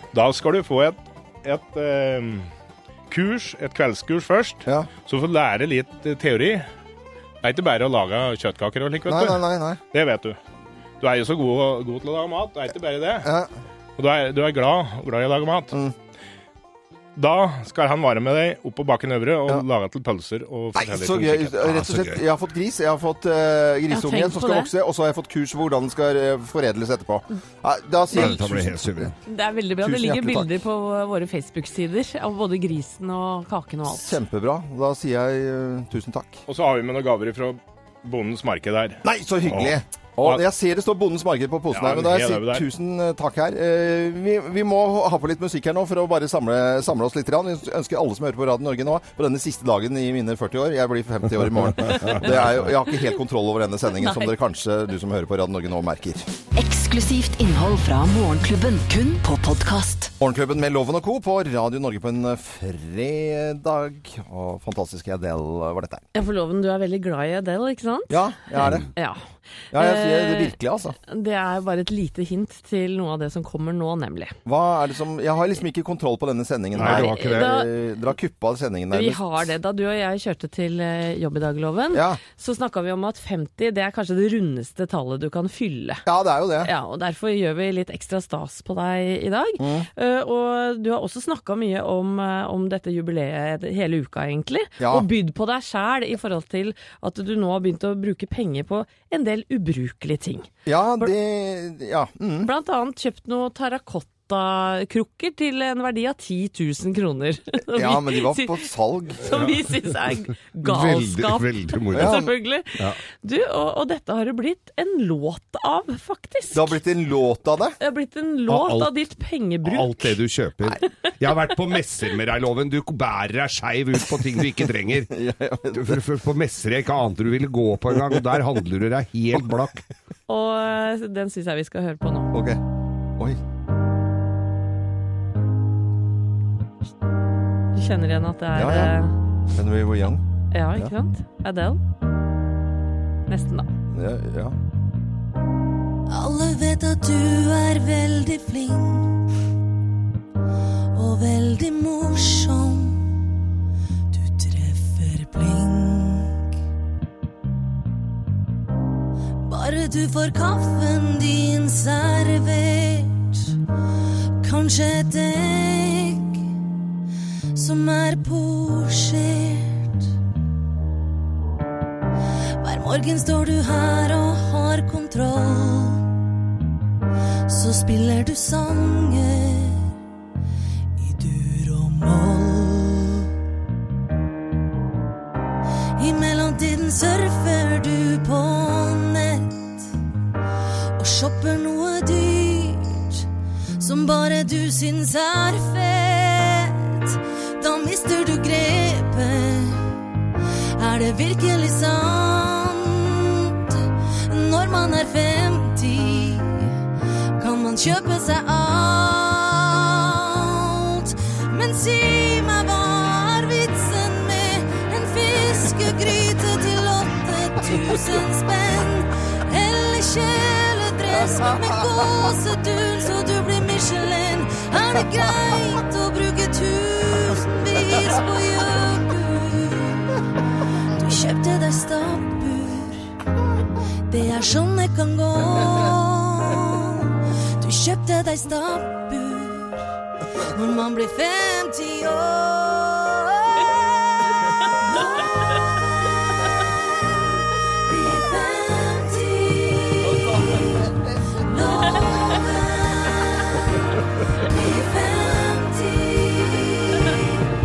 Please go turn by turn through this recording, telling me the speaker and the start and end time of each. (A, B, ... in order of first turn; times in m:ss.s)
0:00.1-0:02.5 A
0:03.1-0:06.7 A
0:07.4-0:09.4 A
0:09.1-0:09.8 B
0:09.9-0:10.4 A
0:11.0-0:13.3 A
0:13.2-0:13.5 B
0:14.0-0:15.8 A
0:17.2-0:21.6 A
0:20.8-0:29.1 B
0:21.6-0:22.2 C
0:23.9-0:24.7 D
0:28.1-0:29.1 C
0:29.3-0:34.1 D
0:29.8-0:30.5 B
0:33.9-0:36.4 B
0:36.5-0:40.4 A
0:39.0-0:56.3 B
0:41.7-0:42.6 A
0:51.8-0:52.4 C
0:53.9-0:54.3 D
0:56.5-1:00.1 E
1:00.2-1:06.0 B
1:06.1-1:10.6 D
1:08.1-1:08.9 B
1:09.7-1:11.0 B
1:11.1-1:14.4 D
1:14.4-1:19.3 B
1:16.8-1:17.5 C
1:16.8-1:17.7 D
1:18.9-1:26.0 D
1:21.9-1:22.2 B
1:26.1-1:26.7 B
1:26.6-1:40.5 D
1:29.6-1:29.9 B
1:34.8-1:35.1 B
1:40.7-1:42.5 B
1:42.4-1:48.7 D
1:47.7-1:49.3 B
1:49.2-1:56.8 D
1:49.3-1:49.6 C
1:50.6-1:52.3 C
1:51.9-1:52.3 B
1:56.5-1:57.8 B
1:57.8-2:00.2 D
1:58.5-1:59.0 C
1:59.6-2:05.1 C
2:04.3-2:06.0 B
2:05.7-2:09.8 C
2:10.3-2:12.3 D
2:12.3-2:12.6 B
2:17.7-2:19.1 D
2:18.5-2:18.9 B
2:19.5-2:20.2 B
2:20.5-2:21.8 D
2:23.3-2:23.7 D
2:23.9-2:24.6 B
2:26.1-2:29.2 F
2:30.9-2:33.0 F
2:34.1-2:36.4 F
2:39.4-2:43.5 F
2:44.4-2:46.4 F
2:47.6-2:49.9 F
2:52.6-2:56.0 F
2:57.5-2:59.9 F
3:01.0-3:03.3 F
3:06.0-3:09.9 F
3:11.0-3:13.3 F
3:13.8-3:19.9 F
3:20.8-3:26.8 F
3:27.4-3:50.2 F
3:51.0-3:53.0 F
3:54.1-3:59.8 F
4:00.5-4:13.8 F
4:14.4-4:17.4 F